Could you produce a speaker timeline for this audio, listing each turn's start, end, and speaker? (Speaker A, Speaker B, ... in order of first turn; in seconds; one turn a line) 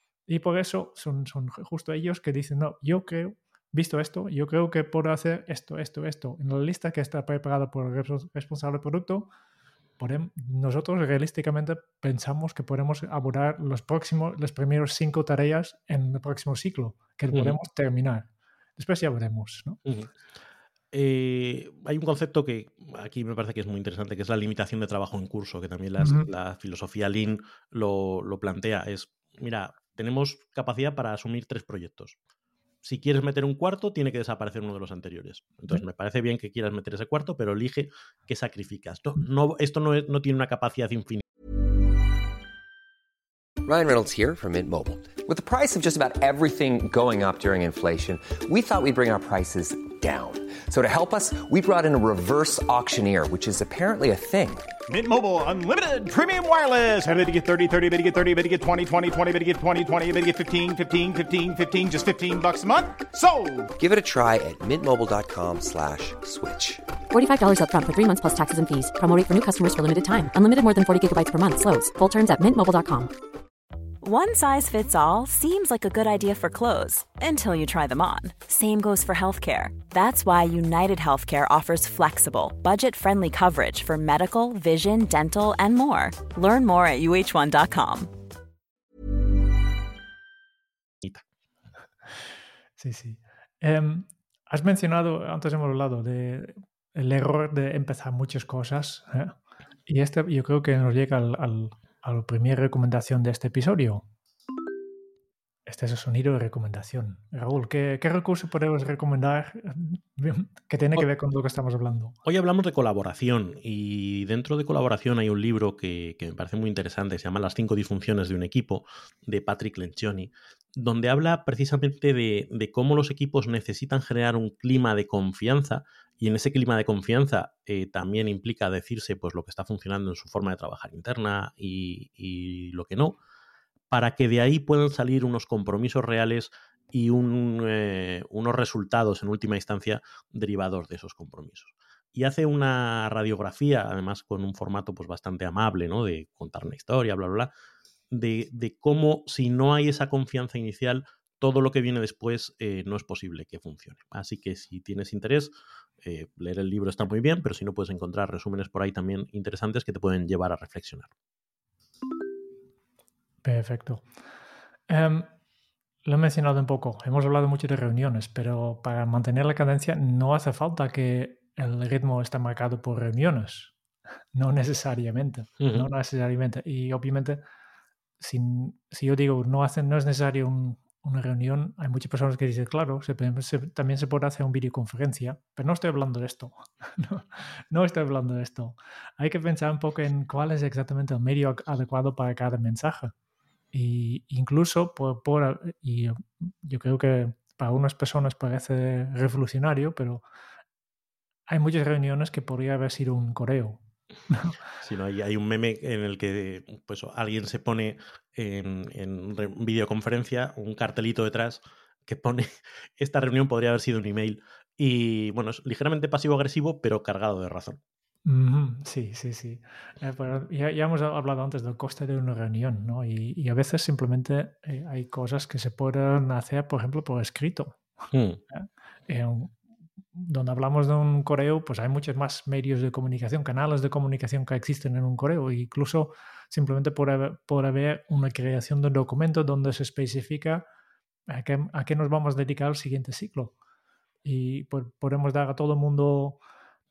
Speaker A: 0.3-9.3
Speaker A: 10.0-19.8
Speaker B: 17.3-17.6
Speaker B: 20.9-32.2
Speaker A: 26.0-26.3
Speaker B: 32.8-41.2
Speaker C: 43.6-54.7
Speaker D: 54.9-63.7
Speaker C: 63.8-66.8
Speaker E: 67.1-73.1
Speaker F: 74.0-88.1
Speaker A: 92.8-99.3
Speaker A: 99.9-104.0
Speaker A: 105.7-112.2
Speaker B: 112.2-133.2
Speaker B: 133.9-147.5
Speaker B: 148.1-155.5
Speaker B: 156.0-161.1
Speaker A: 163.4-164.0
Speaker A: 164.9-165.3
Speaker A: 166.0-173.7
Speaker A: 174.3-177.4
Speaker B: 175.6-175.9
Speaker A: 178.2-193.1
Speaker A: 193.7-200.2
Speaker A: 201.5-204.6
Speaker B: 204.8-217.8
Speaker A: 218.2-227.8
Speaker B: 228.1-228.4
Speaker A: 228.5-229.5
Speaker A: 230.1-240.6
Speaker A: 241.3-243.5
Speaker A: 244.2-246.4